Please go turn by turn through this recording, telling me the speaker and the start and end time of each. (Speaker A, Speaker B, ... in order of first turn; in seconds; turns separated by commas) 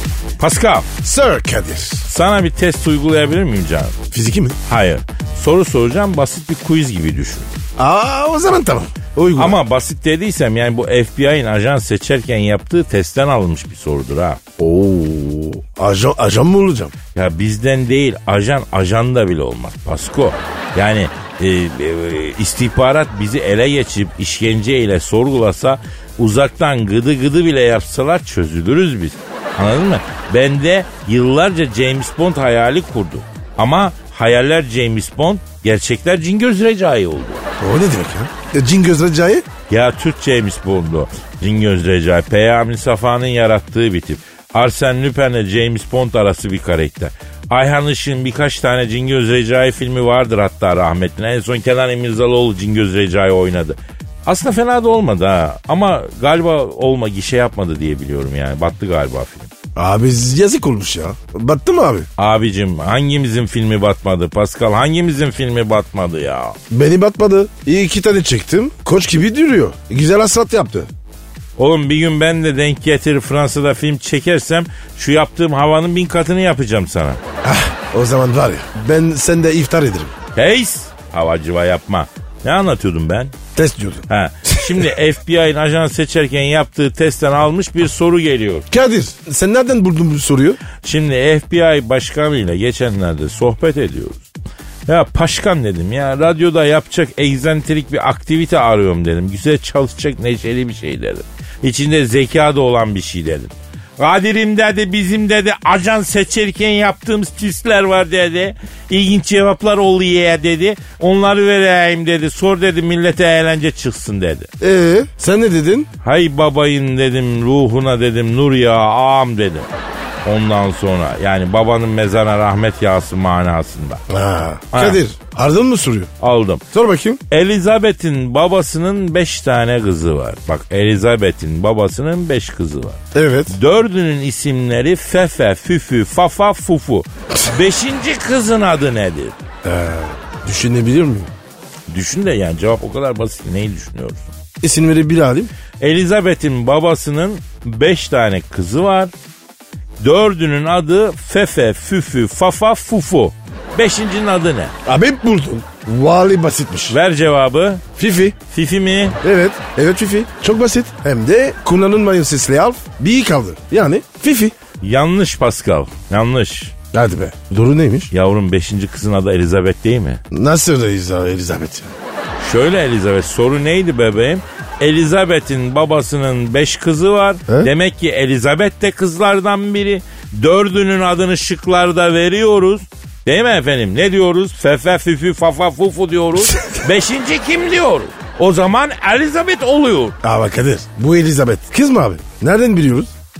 Speaker A: 0.4-0.9, Speaker B: 1.0-2.0, Speaker A: 2.0-3.9, Speaker B: 4.1-4.6, Speaker A: 4.7-7.5, Speaker B: 7.8-9.6, Speaker A: 9.3-14.4, Speaker B: 14.6-16.9, Speaker A: 17.1-37.5, Speaker B: 37.6-39.5, Speaker A: 39.7-59.5, Speaker B: 59.7-62.1, Speaker A: 62.2-66.6, Speaker B: 66.7-70.9, Speaker A: 71.6-77.2, Speaker B: 77.4-80.1, Speaker A: 80.3-83.3, Speaker B: 83.5-84.8, Speaker A: 84.1-88.7, Speaker B: 88.7-90.6, Speaker A: 90.8-94.3, Speaker A: 94.9-114.5, Speaker B: 114.6-115.9, Speaker A: 116.0-119.7, Speaker A: 120.2-124.0, Speaker B: 124.1-126.1, Speaker A: 124.7-125.0, Speaker A: 126.2-126.6, Speaker B: 126.7-127.2, Speaker A: 127.3-139.3, Speaker B: 133.1-133.5, Speaker B: 139.6-141.3, Speaker A: 141.9-144.3, Speaker B: 144.6-145.5, Speaker A: 145.8-149.1, Speaker A: 150.0-154.7, Speaker B: 154.8-156.9, Speaker A: 156.9-157.8, Speaker B: 157.9-158.4, Speaker A: 158.5-159.2, Speaker B: 159.2-164.5, Speaker A: 164.8-166.7, Speaker B: 166.9-168.1, Speaker A: 168.1-170.2, Speaker B: 170.3-171.9, Speaker A: 172.4-190.2, Speaker B: 190.2-193.1